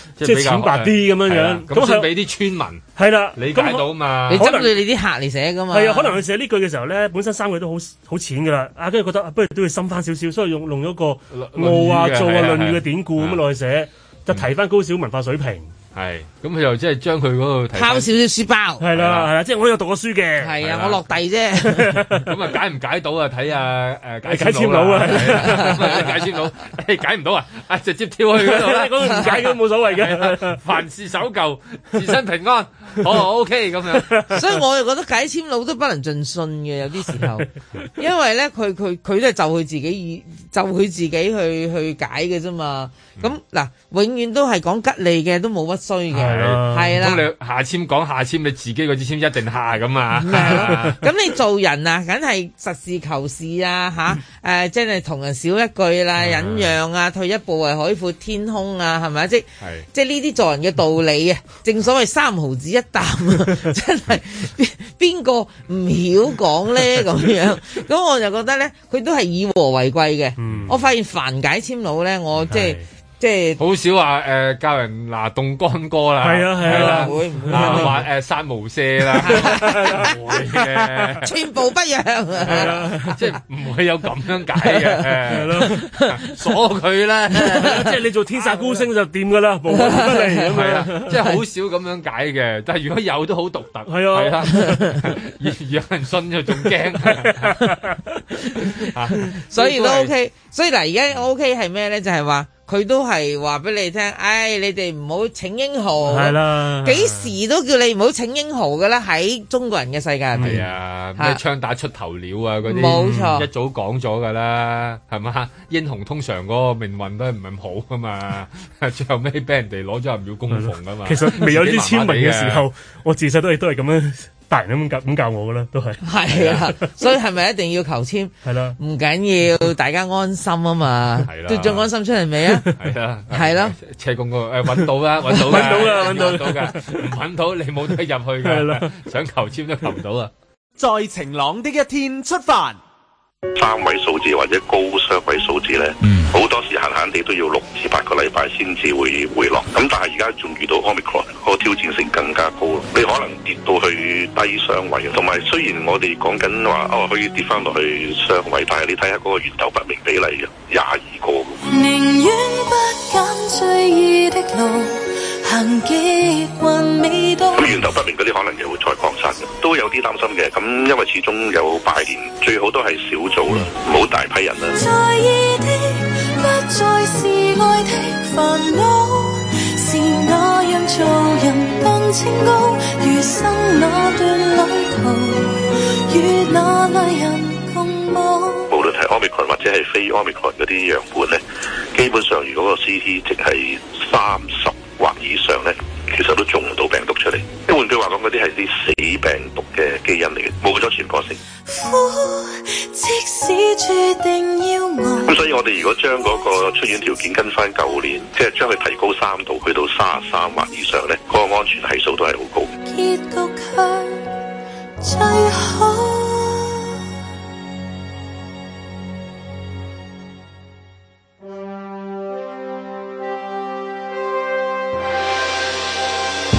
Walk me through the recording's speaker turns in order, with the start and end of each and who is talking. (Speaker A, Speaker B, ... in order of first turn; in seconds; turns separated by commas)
Speaker A: 0.2-4.5, Speaker B: 0.2-2.1, Speaker B: 3.0-4.7, Speaker C: 4.3-6.2, Speaker B: 5.7-15.7, Speaker A: 11.3-13.4, Speaker A: 15.9-18.1, Speaker C: 17.7-18.8, Speaker B: 18.8-20.6, Speaker A: 18.9-19.3, Speaker C: 20.4-22.0, Speaker A: 20.6-21.0, Speaker B: 21.6-22.3, Speaker A: 22.2-34.2, Speaker B: 24.3-26.1, Speaker B: 28.4-30.6, Speaker B: 34.0-34.5, Speaker C: 34.3-47.3, Speaker A: 46.1-51.0, Speaker B: 46.1-47.0, Speaker C: 50.2-73.6, Speaker B: 50.3-51.0, Speaker B: 56.3-56.6, Speaker A: 59.6-59.9, Speaker B: 70.4-70.8, Speaker A: 70.5-70.7, Speaker B: 72.5-72.8, Speaker A: 73.6-81.3, Speaker B: 76.2-78.0, Speaker C: 76.7-78.0, Speaker B: 79.2-81.2, Speaker C: 79.2-80.1, Speaker C: 81.2-82.8, Speaker B: 82.4-83.2, Speaker A: 82.4-88.8, Speaker B: 85.3-85.9, Speaker B: 87.4-91.2, Speaker C: 89.8-90.5, Speaker A: 90.5-97.6, Speaker B: 93.9-95.0, Speaker B: 97.0-98.0, Speaker A: 98.6-100.1, Speaker C: 99.5-110.6, Speaker B: 106.0-107.3, Speaker B: 110.4-110.7, Speaker A: 110.4-122.7, Speaker C: 112.7-113.5, Speaker B: 112.8-113.4, Speaker B: 120.5-126.0, Speaker C: 126.0-132.7, Speaker A: 126.3-126.7, Speaker B: 128.4-128.8, Speaker A: 131.2-131.9, Speaker A: 132.8-140.3, Speaker C: 133.3-133.8, Speaker B: 135.2-137.1, Speaker B: 138.4-138.9, Speaker D: 140.8-142.8, Speaker E: 143.6-161.6, Speaker F: 161.6-167.8, Speaker E: 167.5-174.8, Speaker F: 174.7-188.7, Speaker E: 188.7-191.4, Speaker E: 191.9-201.4, Speaker F: 201.7-205.5, Speaker E: 205.3-212.7, Speaker F: 212.8-214.3, Speaker F: 215.0-216.9